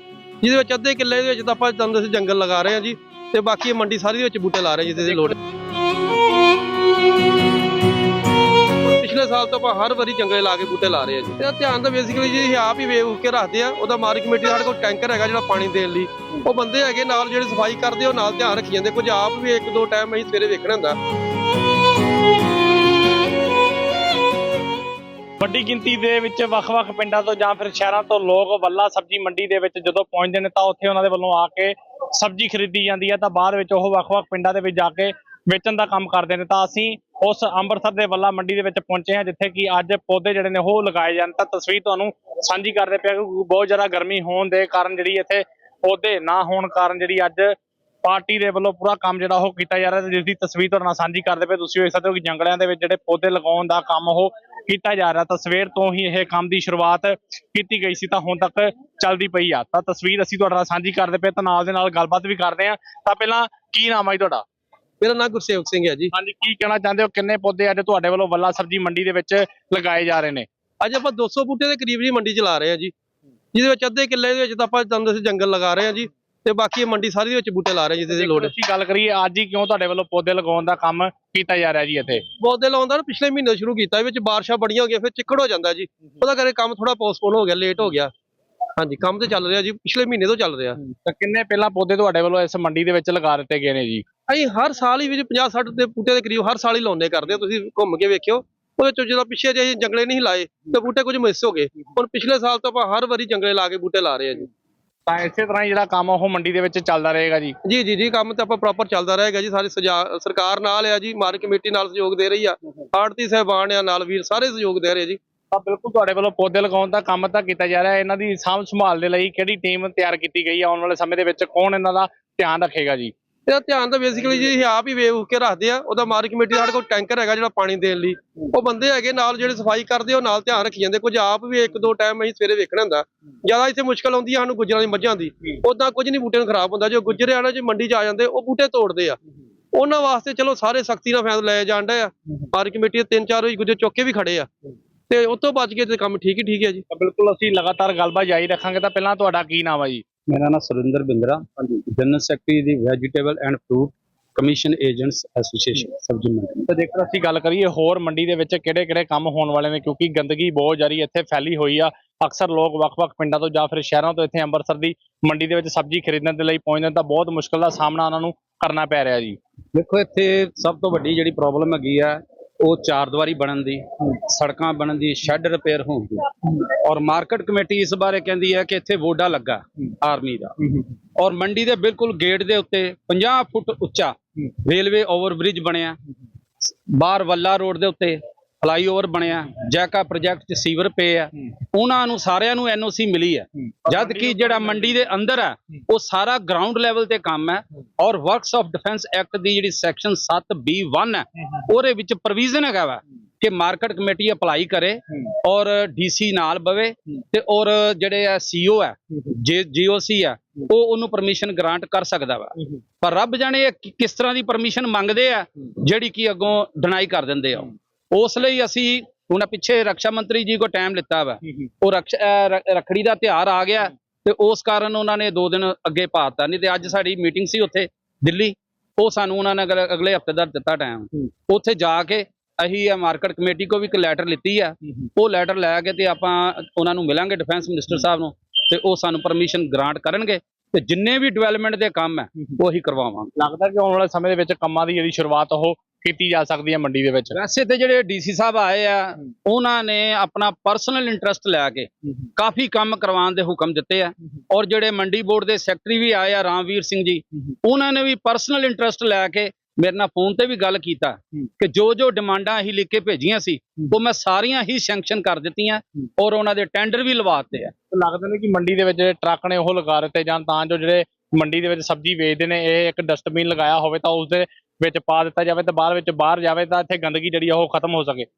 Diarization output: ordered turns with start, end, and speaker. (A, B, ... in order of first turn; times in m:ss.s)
0:00.4-0:05.3 A
0:08.8-0:21.0 A
0:25.4-1:04.4 B
1:05.0-1:06.1 A
1:06.1-1:10.4 B
1:10.8-1:12.9 A
1:13.5-1:18.5 A
1:18.1-1:22.2 B
1:22.4-1:28.1 A
1:28.8-1:30.8 A
1:30.9-1:34.0 B
1:34.3-1:44.5 A
1:45.0-1:47.6 B
1:47.6-1:55.2 A
1:55.5-2:03.1 B
2:03.5-2:19.2 A
2:19.7-2:24.5 A
2:25.1-2:26.8 A
2:26.9-2:30.0 B
2:30.3-2:36.7 C
2:36.7-2:49.4 B
2:49.7-3:06.0 C
3:06.6-4:03.3 C
3:14.0-3:14.7 B
4:03.4-4:07.4 B
4:07.3-4:27.7 C
4:27.9-4:38.3 B